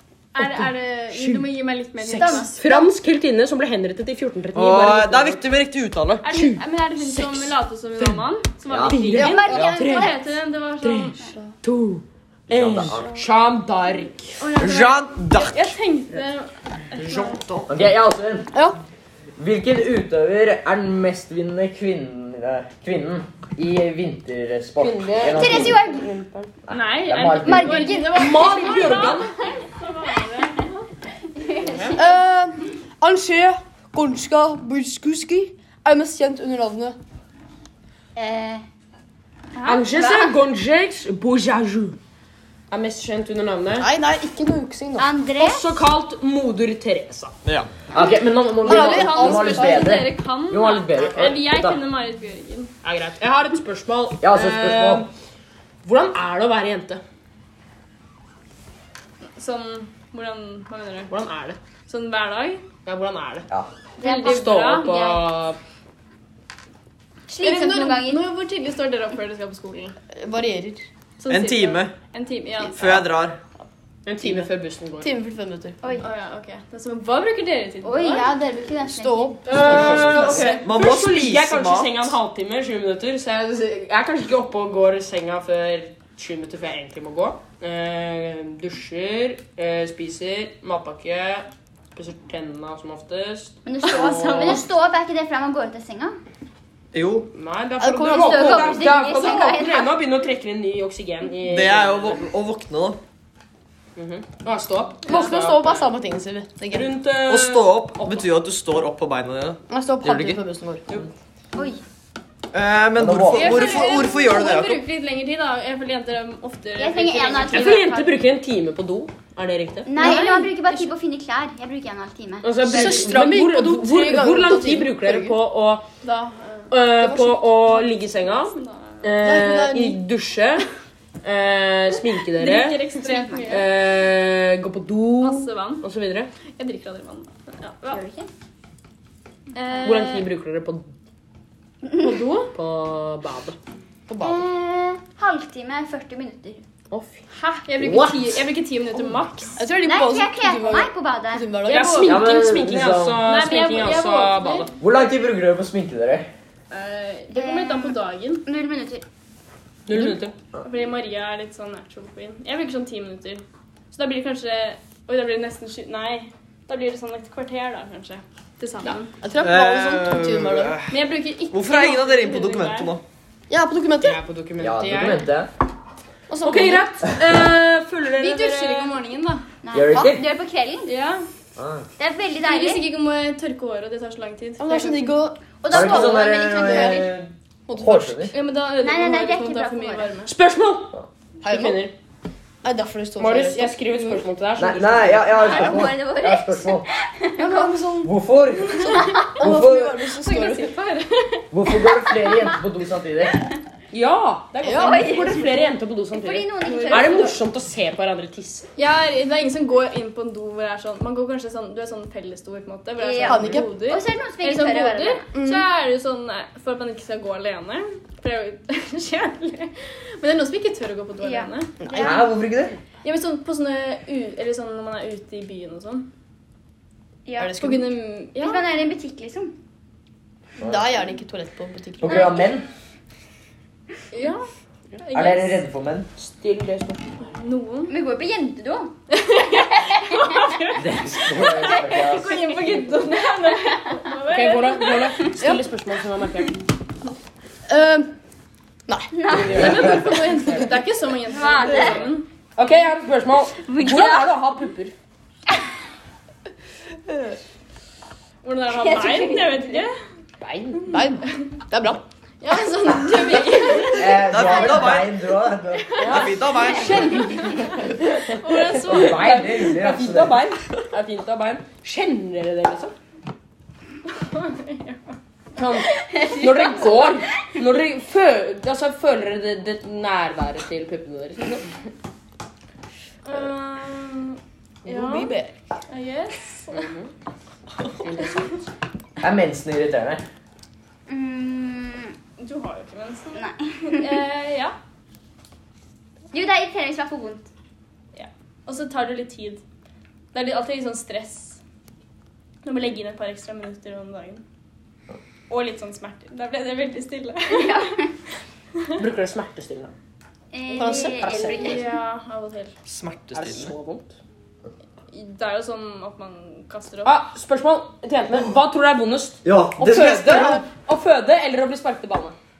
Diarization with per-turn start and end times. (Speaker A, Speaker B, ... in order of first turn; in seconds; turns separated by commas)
Speaker A: 0.3-2.5, Speaker B: 0.4-1.5, Speaker C: 2.0-2.9, Speaker B: 2.1-5.4, Speaker D: 4.5-6.2, Speaker A: 6.2-11.3, Speaker B: 6.2-8.2, Speaker E: 8.7-9.1, Speaker B: 8.9-10.1, Speaker C: 9.1-10.1, Speaker F: 9.2-9.6, Speaker B: 10.8-14.5, Speaker E: 12.5-13.1, Speaker A: 14.4-17.4, Speaker D: 14.6-15.7, Speaker D: 17.0-17.7, Speaker E: 17.7-18.5, Speaker E: 19.4-25.8, Speaker B: 24.8-26.5, Speaker C: 25.3-26.1, Speaker E: 26.7-27.9, Speaker A: 26.7-30.9, Speaker C: 27.4-29.2, Speaker B: 28.1-29.4, Speaker C: 31.4-32.2, Speaker B: 31.6-32.0, Speaker F: 32.0-37.0, Speaker C: 38.2-38.6, Speaker C: 39.6-40.3, Speaker B: 39.6-42.0, Speaker B: 42.7-43.9, Speaker F: 43.8-45.1, Speaker C: 45.0-45.7, Speaker B: 45.4-47.3, Speaker D: 47.5-47.8, Speaker E: 47.9-51.8, Speaker F: 48.6-50.0, Speaker A: 48.6-52.7, Speaker B: 51.0-51.4, Speaker B: 52.8-55.1, Speaker E: 54.2-55.1, Speaker B: 55.8-57.0, Speaker A: 59.4-61.1, Speaker B: 61.1-61.6, Speaker A: 61.9-62.6, Speaker B: 62.9-63.5, Speaker C: 64.0-65.2, Speaker A: 64.0-65.2, Speaker B: 64.1-65.6, Speaker C: 67.3-68.3, Speaker A: 67.4-70.0, Speaker F: 70.1-70.8, Speaker A: 71.2-72.8, Speaker D: 71.3-71.9, Speaker D: 72.7-73.4, Speaker B: 74.1-75.1, Speaker F: 74.2-74.5, Speaker F: 75.0-75.8, Speaker C: 75.8-76.1, Speaker A: 76.0-78.3, Speaker C: 77.8-80.3, Speaker F: 78.9-80.7, Speaker B: 79.5-94.7, Speaker D: 80.3-82.2, Speaker C: 93.7-96.2, Speaker D: 96.9-97.3, Speaker B: 97.3-102.2, Speaker F: 97.8-98.9, Speaker C: 98.0-99.9, Speaker D: 101.4-103.0, Speaker B: 104.0-105.9, Speaker F: 105.1-106.9, Speaker B: 106.7-108.2, Speaker D: 107.3-110.4, Speaker F: 109.7-110.9, Speaker C: 111.5-111.8, Speaker D: 112.5-114.8, Speaker E: 113.0-113.8, Speaker A: 113.3-118.0, Speaker C: 116.8-118.1, Speaker B: 117.5-120.2, Speaker C: 119.9-123.2, Speaker F: 120.0-120.5, Speaker A: 120.0-120.9, Speaker B: 122.4-125.8, Speaker F: 122.6-125.4, Speaker A: 126.0-126.7, Speaker B: 126.7-130.7, Speaker F: 127.0-127.5, Speaker A: 127.7-129.1, Speaker F: 129.2-130.0, Speaker B: 131.2-132.8, Speaker A: 132.4-133.7, Speaker C: 133.0-133.6, Speaker B: 133.5-136.3, Speaker A: 135.2-135.8, Speaker A: 136.6-138.0, Speaker C: 137.8-138.3, Speaker A: 139.5-140.3, Speaker B: 139.8-140.9, Speaker C: 141.9-142.2, Speaker B: 142.5-143.6, Speaker F: 144.1-144.4, Speaker C: 144.2-146.6, Speaker B: 146.9-147.3, Speaker A: 147.3-149.7, Speaker E: 147.8-148.4, Speaker F: 149.6-152.3, Speaker C: 149.8-151.8, Speaker B: 151.7-154.7, Speaker E: 152.0-153.3, Speaker A: 153.2-154.7, Speaker E: 154.8-156.3, Speaker A: 156.7-158.5, Speaker C: 157.3-159.0, Speaker B: 159.9-160.3, Speaker A: 160.6-169.1, Speaker F: 169.2-170.8, Speaker D: 169.4-173.0, Speaker A: 170.9-172.9, Speaker F: 173.5-174.2, Speaker B: 174.0-175.3, Speaker E: 174.6-175.5, Speaker F: 176.3-176.9, Speaker B: 176.4-179.0, Speaker A: 178.2-179.5, Speaker C: 179.6-180.9, Speaker E: 179.7-180.3, Speaker A: 180.9-181.3, Speaker E: 181.6-181.9, Speaker C: 182.0-182.9, Speaker A: 182.4-185.2, Speaker F: 184.6-187.1, Speaker C: 185.6-187.2, Speaker E: 185.7-188.3, Speaker F: 187.7-188.3, Speaker A: 188.3-190.3, Speaker C: 188.8-190.2, Speaker B: 190.3-191.9, Speaker F: 191.4-191.8, Speaker F: 192.6-194.2, Speaker B: 193.2-195.4, Speaker E: 194.6-196.9, Speaker C: 195.3-197.9, Speaker F: 197.4-200.7, Speaker E: 198.0-200.0, Speaker C: 199.0-199.3, Speaker A: 200.2-201.4, Speaker E: 201.5-203.4, Speaker C: 201.8-202.6, Speaker B: 203.9-208.7, Speaker F: 204.6-205.1, Speaker C: 204.7-207.4, Speaker A: 206.7-207.2, Speaker A: 208.8-221.8, Speaker C: 213.0-215.3, Speaker F: 213.2-213.8, Speaker F: 215.3-215.7, Speaker C: 221.2-222.2, Speaker F: 221.8-222.2, Speaker E: 221.9-222.8, Speaker A: 223.0-226.1, Speaker C: 227.3-227.7, Speaker F: 227.4-227.9, Speaker A: 227.6-228.7, Speaker C: 228.3-229.6, Speaker F: 230.6-232.5, Speaker E: 232.0-232.7, Speaker A: 234.1-234.5, Speaker A: 235.0-235.6, Speaker E: 235.1-236.1, Speaker B: 236.2-237.3, Speaker A: 237.3-237.9, Speaker C: 237.9-238.9, Speaker A: 239.1-245.3, Speaker C: 239.6-239.9, Speaker E: 240.8-242.3, Speaker C: 241.6-242.8, Speaker B: 244.3-246.6, Speaker F: 247.7-248.1, Speaker F: 248.9-250.7, Speaker C: 249.1-250.1, Speaker B: 249.5-249.9, Speaker E: 249.5-250.0, Speaker A: 249.5-252.3, Speaker C: 251.3-252.1, Speaker B: 251.3-254.9, Speaker C: 253.5-254.6, Speaker F: 257.1-257.4, Speaker A: 258.4-259.9, Speaker C: 258.7-259.9, Speaker B: 260.4-261.0, Speaker A: 260.9-261.5, Speaker F: 260.9-262.0, Speaker A: 262.4-264.2, Speaker E: 263.9-266.0, Speaker D: 264.2-265.1, Speaker A: 265.8-266.3, Speaker B: 266.0-272.9, Speaker D: 266.0-267.2, Speaker A: 266.8-269.6, Speaker E: 268.8-270.4, Speaker A: 274.1-275.0, Speaker B: 275.6-281.7, Speaker C: 276.1-277.1, Speaker A: 283.2-285.3, Speaker F: 284.9-285.5, Speaker B: 285.0-285.5, Speaker A: 285.9-286.9, Speaker B: 286.7-287.1, Speaker B: 287.9-288.6, Speaker E: 289.2-290.2, Speaker C: 291.1-292.2, Speaker A: 292.4-294.8, Speaker C: 293.3-294.2, Speaker C: 296.3-297.5, Speaker A: 298.1-299.6, Speaker A: 300.3-301.6, Speaker A: 302.6-304.4, Speaker A: 305.5-308.1, Speaker C: 307.5-308.1, Speaker B: 309.0-309.9, Speaker C: 310.5-311.9, Speaker F: 310.8-311.8, Speaker B: 311.2-311.7, Speaker A: 311.4-312.7, Speaker D: 312.9-313.7, Speaker B: 313.3-314.2, Speaker A: 315.1-317.2, Speaker B: 317.1-322.4, Speaker D: 319.4-320.6